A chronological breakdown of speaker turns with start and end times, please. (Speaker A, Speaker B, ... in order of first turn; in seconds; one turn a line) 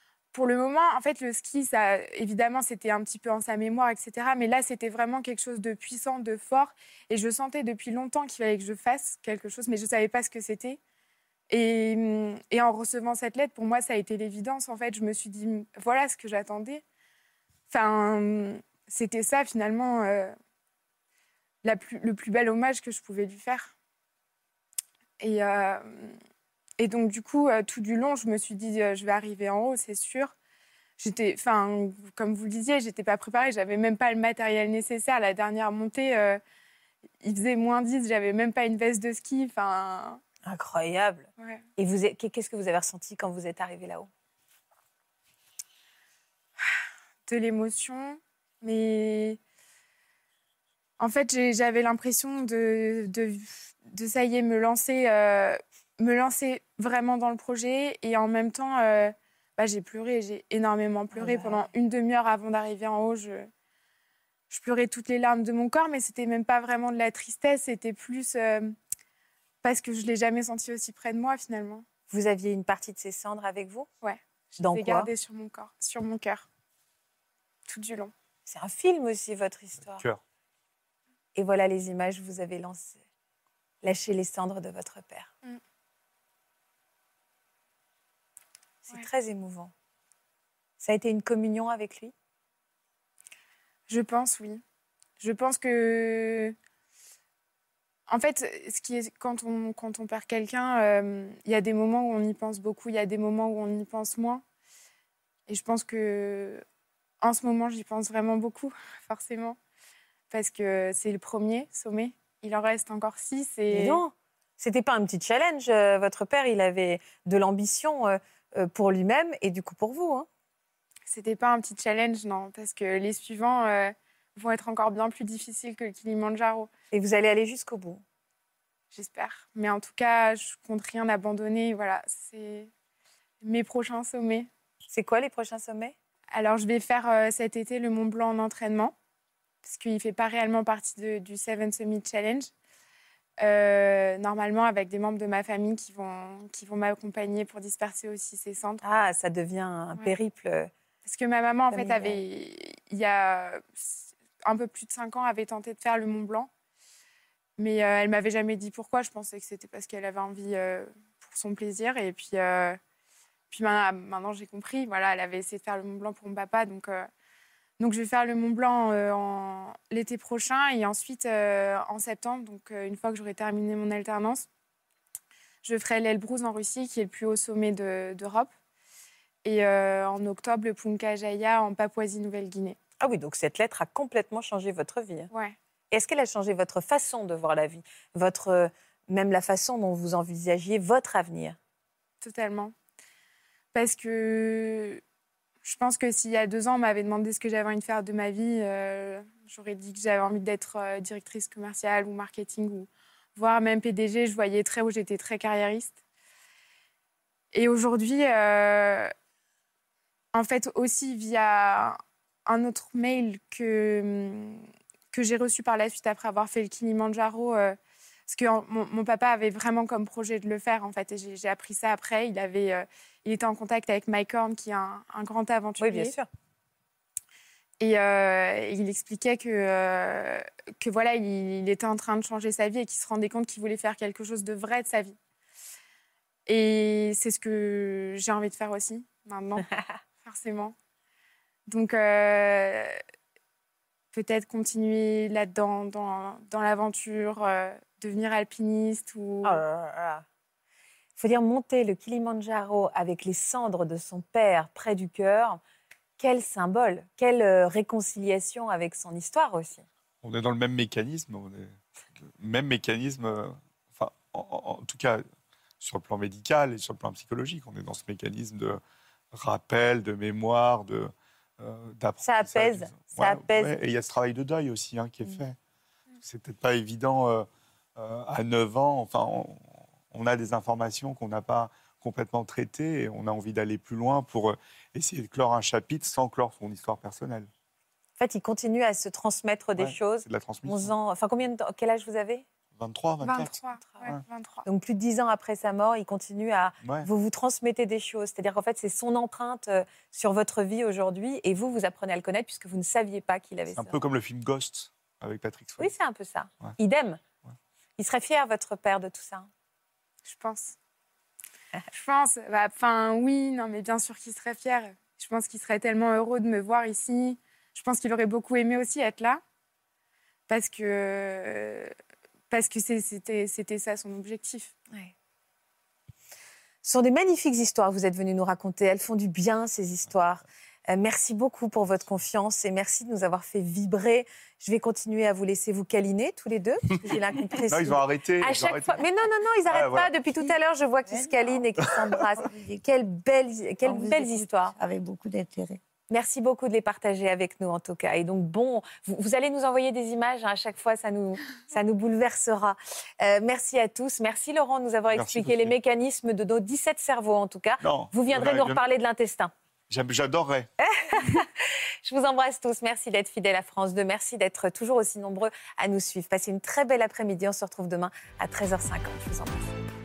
Speaker A: 0.3-10.8
Speaker A: 11.5-16.8
Speaker A: 17.7-20.4
Speaker A: 21.6-23.7
Speaker A: 25.2-26.2
Speaker A: 26.8-30.3
Speaker A: 31.0-36.4
Speaker A: 37.2-40.2
Speaker B: 40.5-44.1
Speaker A: 47.3-49.4
Speaker A: 51.0-63.5
Speaker B: 61.1-61.6
Speaker A: 64.5-68.8
Speaker A: 69.6-71.8
Speaker B: 72.1-73.9
Speaker A: 74.0-76.5
Speaker B: 74.6-75.1
Speaker A: 77.7-78.1
Speaker B: 78.5-80.0
Speaker C: 79.9-80.2
Speaker B: 81.4-83.0
Speaker B: 83.8-85.3
Speaker B: 88.9-89.7
Speaker B: 90.8-92.1
Speaker A: 93.9-94.6
Speaker A: 95.2-96.6
Speaker A: 98.1-104.4
Speaker A: 105.5-106.6
Speaker A: 107.2-109.6
Speaker A: 110.3-114.0
Speaker B: 113.7-120.3
Speaker A: 121.1-126.7
Speaker B: 126.9-128.0
Speaker A: 128.9-132.7
Speaker A: 133.4-134.5
Speaker B: 134.9-135.9
Speaker A: 136.3-138.9
Speaker A: 139.6-142.5
Speaker A: 143.4-148.8
Speaker B: 148.8-150.7
Speaker A: 151.1-156.5
Speaker B: 151.7-152.2
Speaker A: 157.6-162.8
Speaker A: 163.5-167.1
Speaker A: 167.8-174.5
Speaker A: 175.6-178.5
Speaker A: 179.4-182.8
Speaker B: 183.0-185.3
Speaker A: 185.3-185.6
Speaker B: 185.9-191.6
Speaker A: 192.2-192.7
Speaker A: 193.7-195.0
Speaker A: 195.6-206.0
Speaker A: 207.5-209.1
Speaker A: 210.3-217.8
Speaker A: 218.3-226.1
Speaker B: 225.8-226.3
Speaker A: 227.8-235.2
Speaker A: 236.5-239.7
Speaker A: 240.2-240.8
Speaker A: 241.7-243.0
Speaker A: 244.1-249.6
Speaker B: 249.4-250.2
Speaker B: 251.2-255.6
Speaker B: 256.2-259.9
Speaker C: 260.2-265.2
Speaker C: 265.8-268.8
Speaker C: 269.3-275.6
Speaker B: 272.2-273.8
Speaker C: 276.2-287.5
Speaker B: 288.2-292.5
Speaker C: 289.8-290.9
Speaker C: 292.8-294.2
Speaker A: 293.2-294.7
Speaker B: 294.6-304.0
Speaker C: 296.8-297.1
Speaker C: 303.7-305.9
Speaker B: 305.8-307.2
Speaker B: 308.0-309.5
Speaker A: 310.2-310.8
Speaker A: 311.9-319.4
Speaker A: 320.5-321.9
Speaker A: 322.5-324.7
Speaker B: 326.8-344.8
Speaker C: 337.7-339.1
Speaker C: 339.7-340.1
Speaker D: 341.1-342.9
Speaker D: 343.8-345.8
Speaker B: 346.1-359.5
Speaker C: 355.1-355.7
Speaker C: 357.8-358.8
Speaker C: 359.9-360.7
Speaker B: 360.8-369.7